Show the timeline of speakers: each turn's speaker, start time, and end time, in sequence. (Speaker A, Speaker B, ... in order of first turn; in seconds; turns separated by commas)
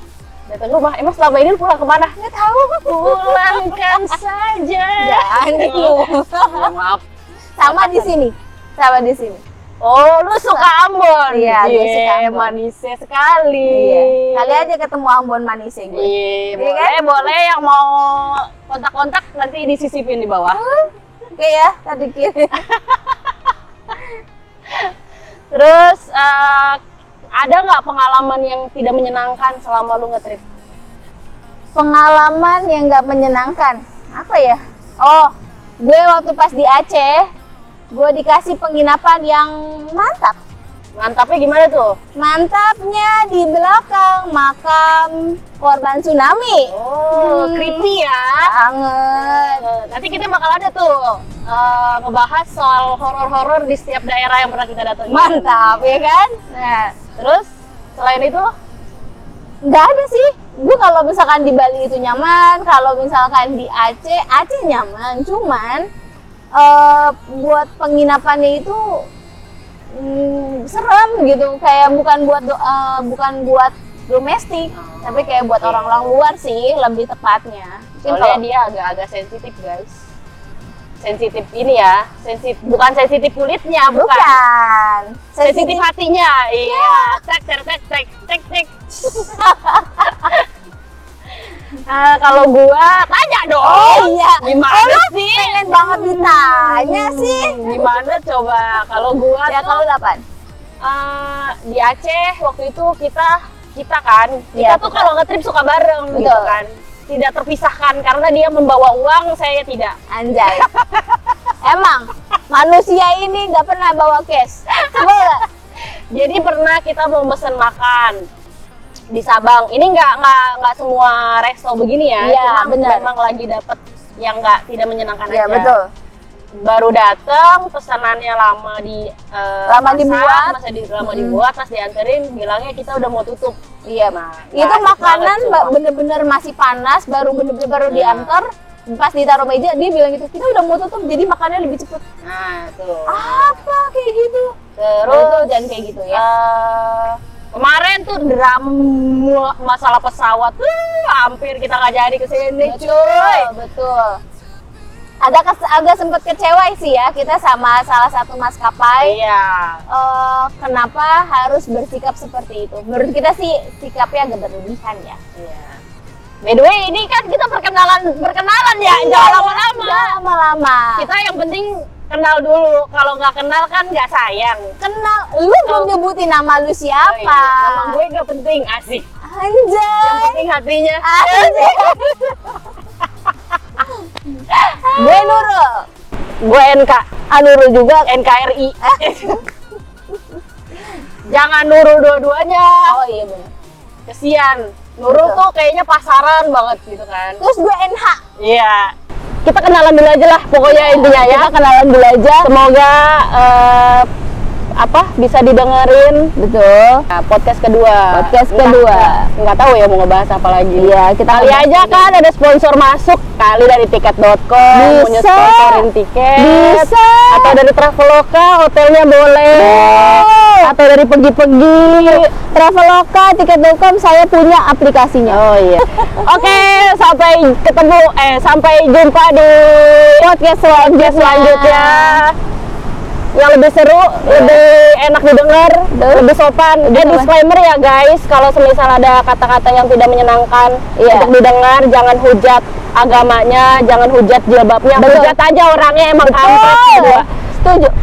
Speaker A: 0.5-2.2, Speaker B: 2.2-4.2, Speaker A: 3.0-7.0, Speaker B: 5.0-6.7, Speaker B: 7.6-9.4, Speaker A: 7.6-8.2, Speaker A: 9.8-14.7, Speaker B: 11.3-12.5, Speaker B: 13.7-17.3, Speaker A: 15.9-20.6, Speaker B: 20.5-20.9, Speaker B: 21.4-22.5, Speaker A: 22.6-23.1, Speaker A: 25.5-26.8, Speaker A: 27.4-30.4, Speaker B: 31.7-37.3, Speaker B: 37.9-40.4, Speaker A: 41.0-42.0, Speaker B: 42.1-47.9, Speaker A: 46.6-48.5, Speaker B: 48.4-49.7, Speaker A: 49.1-56.0, Speaker B: 55.1-56.9, Speaker A: 57.1-58.5, Speaker B: 59.6-65.9, Speaker B: 66.5-69.0, Speaker B: 70.0-78.4, Speaker A: 74.7-76.1, Speaker A: 78.1-80.0, Speaker A: 81.0-84.4, Speaker B: 83.9-85.9, Speaker A: 85.4-89.4, Speaker B: 86.6-87.2, Speaker B: 89.2-89.9, Speaker A: 90.0-90.5, Speaker A: 91.8-99.8, Speaker B: 93.6-98.0, Speaker B: 99.5-100.2, Speaker A: 100.8-110.0, Speaker B: 104.5-104.9, Speaker B: 106.1-106.6, Speaker B: 110.1-110.7, Speaker A: 110.6-111.3, Speaker B: 111.6-115.4, Speaker A: 114.7-115.3, Speaker A: 116.1-118.2, Speaker A: 119.1-125.8, Speaker B: 122.2-123.1, Speaker B: 125.3-125.8, Speaker A: 126.6-133.6, Speaker B: 129.7-131.4, Speaker B: 133.8-142.0, Speaker A: 134.1-135.7, Speaker A: 137.9-138.4, Speaker A: 142.2-143.6, Speaker B: 143.1-144.5, Speaker A: 144.8-145.6, Speaker B: 145.1-146.2, Speaker A: 146.1-153.5, Speaker B: 152.6-154.2, Speaker B: 155.2-159.2, Speaker A: 159.0-159.8, Speaker B: 159.9-165.2, Speaker A: 165.3-165.8, Speaker A: 166.4-170.2, Speaker B: 168.8-171.1, Speaker A: 171.0-174.7, Speaker B: 174.8-178.0, Speaker A: 175.6-175.9, Speaker A: 177.0-179.1, Speaker B: 179.3-180.4, Speaker A: 180.0-182.5, Speaker B: 181.0-182.3, Speaker B: 184.9-185.9, Speaker A: 184.9-185.4, Speaker A: 186.4-187.1, Speaker B: 187.3-188.1, Speaker A: 188.0-189.4, Speaker B: 188.8-189.3, Speaker A: 191.3-192.9, Speaker B: 192.8-193.5, Speaker A: 194.1-197.4, Speaker B: 195.1-195.4, Speaker B: 197.4-198.2, Speaker A: 198.4-198.9, Speaker A: 199.4-201.5, Speaker B: 200.6-202.5, Speaker A: 202.4-204.1, Speaker A: 204.8-206.3, Speaker B: 206.4-207.0, Speaker A: 207.1-222.3, Speaker B: 208.1-209.2, Speaker B: 210.8-212.1, Speaker B: 214.7-217.6, Speaker B: 219.5-220.7, Speaker B: 221.8-225.4, Speaker A: 225.2-232.3, Speaker B: 226.0-226.6, Speaker B: 230.2-232.2, Speaker A: 233.3-247.3, Speaker B: 234.2-234.6, Speaker B: 235.9-236.3, Speaker B: 236.8-237.3, Speaker B: 241.0-241.3, Speaker B: 244.9-245.4, Speaker B: 246.4-247.9